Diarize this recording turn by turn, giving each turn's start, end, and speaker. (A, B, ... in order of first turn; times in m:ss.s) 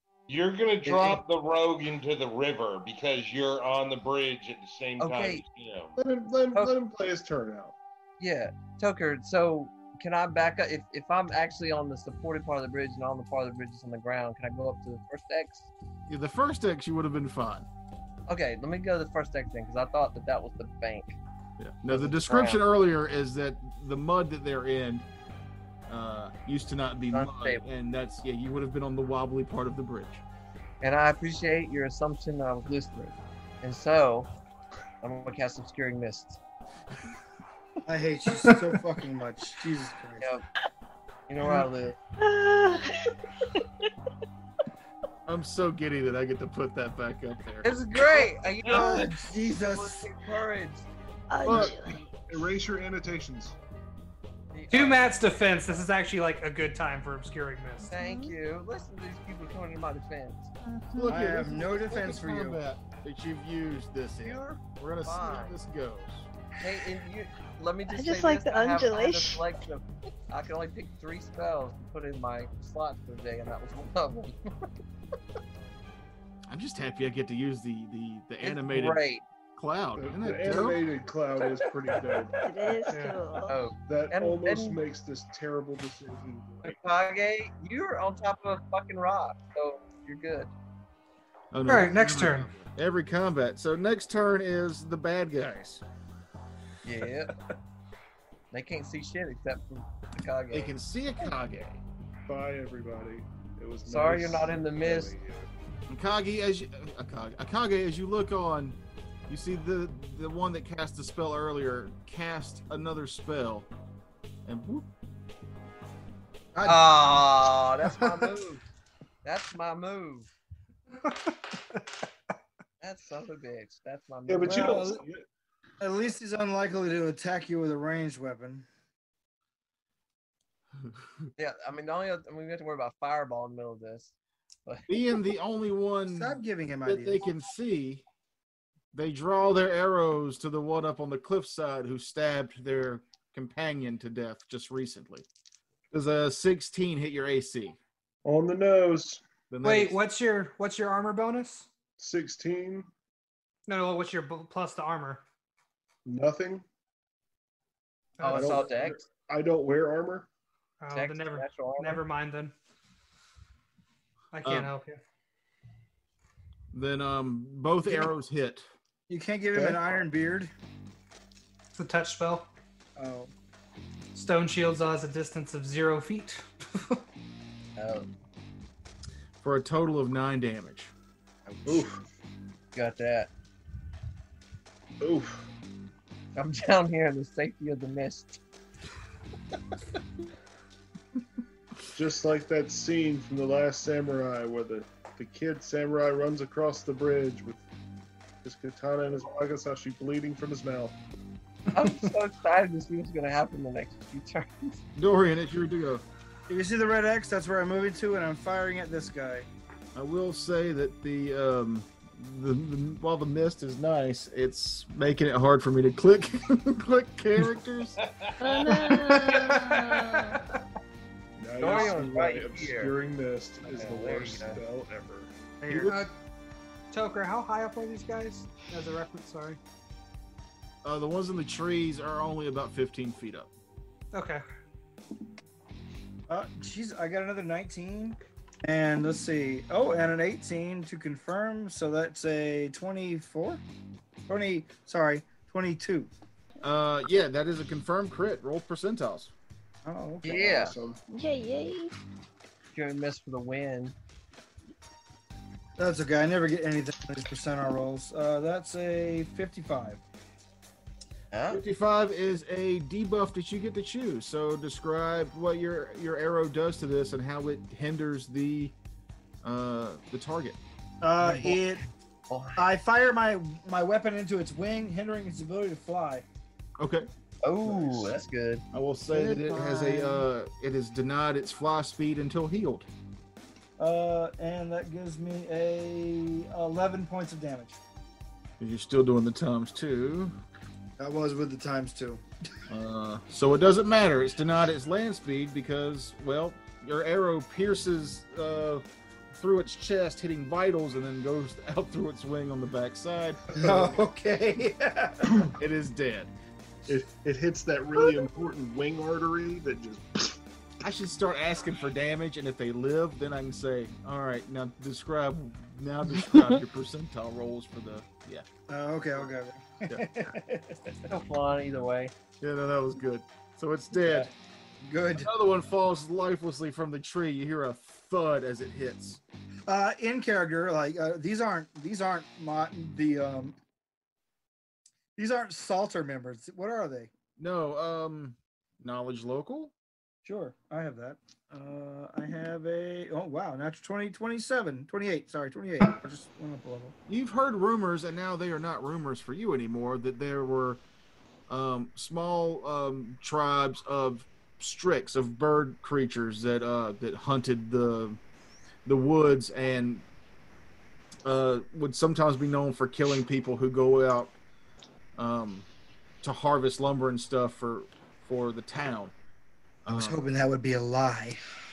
0:00.3-0:06.0 A
0:00.8-0:01.2 B
0:05.0-0:05.4 B
0:06.0-0:07.8 C
0:08.2-0:15.7 B
0:16.1-0:17.7 D
0:18.3-0:21.2 B
0:21.6-0:25.1 D
0:21.9-0:22.6 B
0:25.9-0:30.2 D
0:27.1-0:27.6 B
0:30.8-0:34.3 B
0:35.0-0:36.4 B
0:37.9-0:40.3 E
0:41.3-0:42.0 B
0:42.2-0:43.6 F
0:45.3-0:47.7 D
0:47.6-0:50.9 B
0:48.6-0:50.1 E
0:51.3-0:52.0 F
0:51.4-0:51.8 D
0:52.3-0:53.6 C
0:54.5-0:55.8 B
0:54.7-0:57.9 G
0:57.9-0:58.4 F
0:57.9-1:00.5 B
1:00.6-1:01.2 F
1:01.0-1:06.3 D
1:01.1-1:02.6 E
1:04.2-1:05.6 B
1:06.6-1:14.7 B
1:07.9-1:09.5 F
1:16.5-1:19.0 D
1:18.4-1:19.2 B
1:19.6-1:20.8 D
1:20.0-1:22.4 C
1:21.4-1:22.3 B
1:22.4-1:23.7 F
1:22.9-1:23.2 G
1:23.4-1:24.8 B
1:23.9-1:26.8 C
1:26.6-1:30.5 B
1:31.5-1:35.8 D
1:31.7-1:32.5 G
1:36.8-1:37.3 B
1:38.5-1:40.8 B
1:40.5-1:41.8 D
1:42.3-1:45.5 C
1:43.8-1:45.2 B
1:45.9-1:53.7 D
1:54.4-1:54.9 D
1:56.6-1:58.6 B
1:59.2-2:00.3 B
2:01.0-2:01.3 G
2:02.8-2:05.0 B
2:04.3-2:05.2 C
2:05.8-2:08.7 E
2:11.4-2:14.1 B
2:14.7-2:15.2 B
2:14.9-2:18.0 D
2:16.1-2:17.3 E
2:18.9-2:25.3 D
2:25.9-2:27.8 D
2:28.2-2:29.2 C
2:29.5-2:30.0 D
2:29.6-2:31.7 G
2:32.0-2:32.9 C
2:33.7-2:35.2 G
2:36.0-2:36.6 C
2:38.2-2:38.7 G
2:38.2-2:39.0 B
2:38.3-2:40.3 C
2:40.8-2:42.5 G
2:40.9-2:42.0 B
2:44.3-2:45.0 G
2:44.4-2:44.7 D
2:46.7-2:48.7 D
2:49.1-2:50.5 E
2:49.5-2:49.8 C
2:51.7-2:52.5 G
2:53.0-2:53.3 E
2:54.1-2:57.0 G
2:57.8-2:58.1 B
2:59.4-3:00.9 D
3:01.6-3:02.0 C
3:02.7-3:03.3 B
3:05.0-3:05.5 C
3:06.4-3:08.4 B
3:11.9-3:17.6 C
3:18.4-3:21.0 C
3:21.7-3:24.8 B
3:25.0-3:26.0 D
3:26.5-3:29.5 E
3:30.0-3:38.0 D
3:38.0-3:38.3 A
3:38.4-3:40.4 F
3:38.7-3:39.6 D
3:39.2-3:40.4 G
3:41.4-3:46.0 C
3:41.6-3:43.0 B
3:43.6-3:44.6 B
3:45.6-3:46.1 G
3:46.9-3:49.6 G
3:50.8-3:53.5 D
3:54.1-3:54.4 G
3:56.3-4:03.6 E
4:04.3-4:06.1 E
4:06.6-4:09.3 D
4:09.8-4:10.8 E
4:10.2-4:10.8 B
4:10.3-4:11.0 C
4:11.1-4:12.0 F
4:12.7-4:14.0 B
4:15.8-4:20.0 E
4:21.3-4:21.6 B
4:21.5-4:28.8 D
4:29.4-4:30.6 D
4:31.0-4:31.8 E
4:31.2-4:31.7 B
4:32.3-4:32.7 B
4:32.6-4:36.3 E
4:36.8-4:37.1 D
4:37.4-4:38.6 B
4:38.7-4:42.9 D
4:39.3-4:39.6 E
4:43.8-4:47.8 E
4:48.6-4:50.4 D
4:51.0-4:52.2 E
4:52.7-5:03.5 D
5:03.5-5:03.8 C
5:03.6-5:05.5 E
5:05.6-5:06.3 D
5:06.9-5:10.4 C
5:10.8-5:18.5 D
5:18.7-5:21.1 E
5:19.9-5:20.3 D
5:21.1-5:22.1 B
5:22.4-5:24.3 D
5:24.0-5:24.3 B
5:24.8-5:25.3 E
5:25.1-5:29.2 D
5:29.7-5:33.6 E
5:35.2-5:37.1 E
5:37.4-5:39.7 D
5:40.2-5:47.0 E
5:47.1-5:50.8 D
5:51.5-5:58.2 D
5:58.8-6:00.0 D
6:01.2-6:04.3 D
6:05.2-6:05.7 D
6:06.2-6:09.1 D
6:09.8-6:10.2 D
6:09.9-6:11.5 E